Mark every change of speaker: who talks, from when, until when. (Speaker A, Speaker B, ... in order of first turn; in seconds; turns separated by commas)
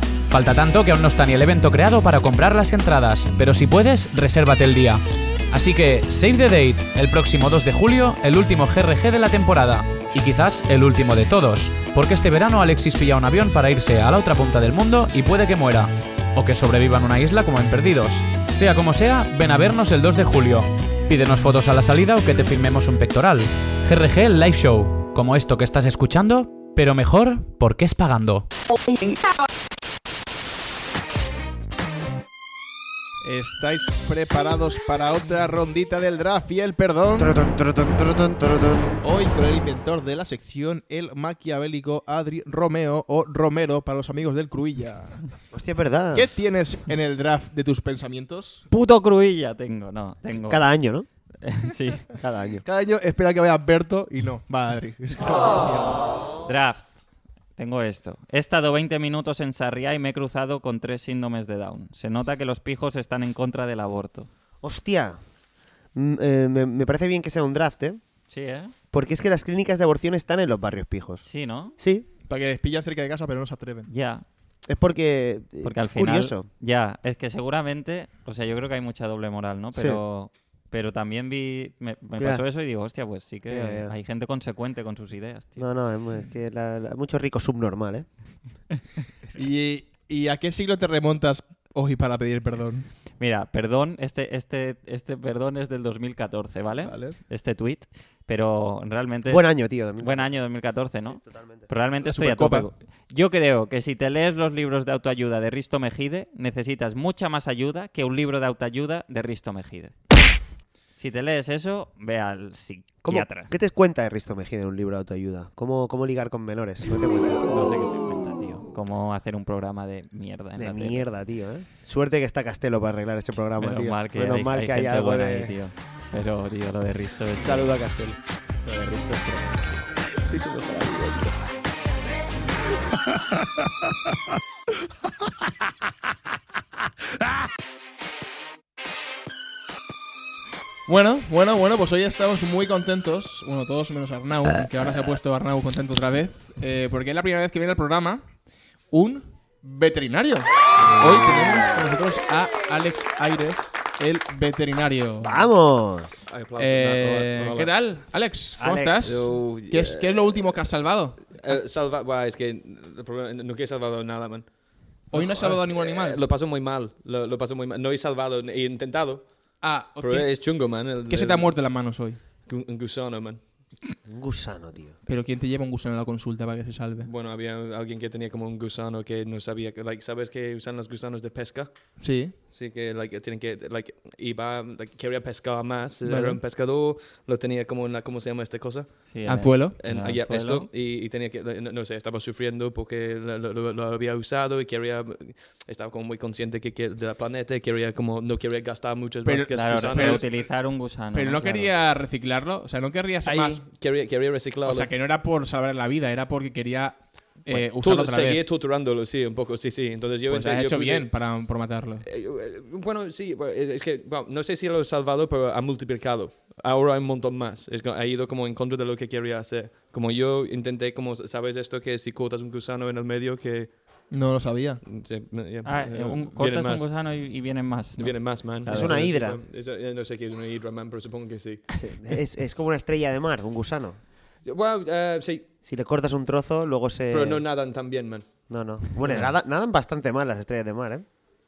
Speaker A: 0.3-28.5, Speaker B: 33.2-37.4, Speaker C: 37.2-39.0, Speaker B: 39.0-45.3, Speaker C: 45.5-46.3, Speaker B: 46.1-48.7, Speaker D: 48.7-50.7, Speaker C: 50.4-51.1, Speaker D: 51.4-52.2, Speaker C: 52.2-52.6, Speaker B: 52.6-56.0, Speaker D: 55.7-57.0, Speaker D: 57.6-64.3, Speaker C: 64.6-65.2, Speaker C: 66.0-68.0, Speaker D: 68.3-68.7, Speaker C: 68.9-71.3, Speaker D: 71.2-71.8, Speaker C: 71.8-72.1, Speaker B: 72.3-73.9, Speaker D: 73.9-74.2, Speaker C: 74.7-76.5, Speaker D: 75.6-85.7, Speaker C: 79.7-80.0, Speaker C: 82.2-82.4, Speaker C: 83.5-83.9, Speaker C: 85.6-88.1, Speaker B: 89.3-92.9, Speaker D: 93.2-110.0, Speaker B: 96.8-97.2, Speaker C: 99.3-100.4, Speaker C: 101.1-101.7, Speaker B: 102.0-102.7, Speaker D: 111.0-113.5, Speaker C: 113.0-117.4, Speaker D: 117.4-121.1, Speaker C: 120.6-125.5, Speaker D: 123.6-127.7, Speaker C: 127.4-128.2, Speaker D: 128.6-129.7, Speaker C: 130.3-131.3, Speaker B: 140.9-148.3, Speaker B: 148.9-155.5, Speaker E: 150.8-151.5, Speaker C: 155.2-156.2, Speaker E: 156.3-158.0, Speaker B: 156.6-161.4, Speaker C: 158.6-159.1, Speaker E: 159.0-160.3, Speaker E: 161.3-164.5, Speaker B: 165.1-166.2, Speaker E: 165.1-171.9, Speaker B: 169.6-170.6, Speaker B: 171.1-172.2, Speaker E: 172.5-173.4, Speaker C: 174.1-175.0, Speaker B: 175.1-177.1, Speaker E: 177.0-181.7, Speaker B: 182.0-182.3, Speaker E: 182.5-188.9, Speaker B: 186.1-186.4, Speaker D: 189.1-190.7, Speaker B: 189.3-189.8, Speaker E: 189.8-200.3, Speaker B: 199.2-200.3, Speaker D: 199.5-201.7, Speaker B: 201.1-203.6, Speaker E: 203.2-204.9, Speaker B: 204.6-208.4, Speaker E: 207.8-211.1, Speaker B: 210.3-212.1, Speaker E: 212.0-223.7, Speaker B: 224.1-224.8, Speaker E: 224.8-226.9, Speaker D: 225.7-229.1, Speaker E: 228.0-231.7, Speaker C: 228.7-229.4, Speaker C: 231.8-234.0, Speaker E: 234.4-235.5, Speaker C: 235.6-237.4, Speaker E: 237.1-238.5, Speaker C: 238.5-241.1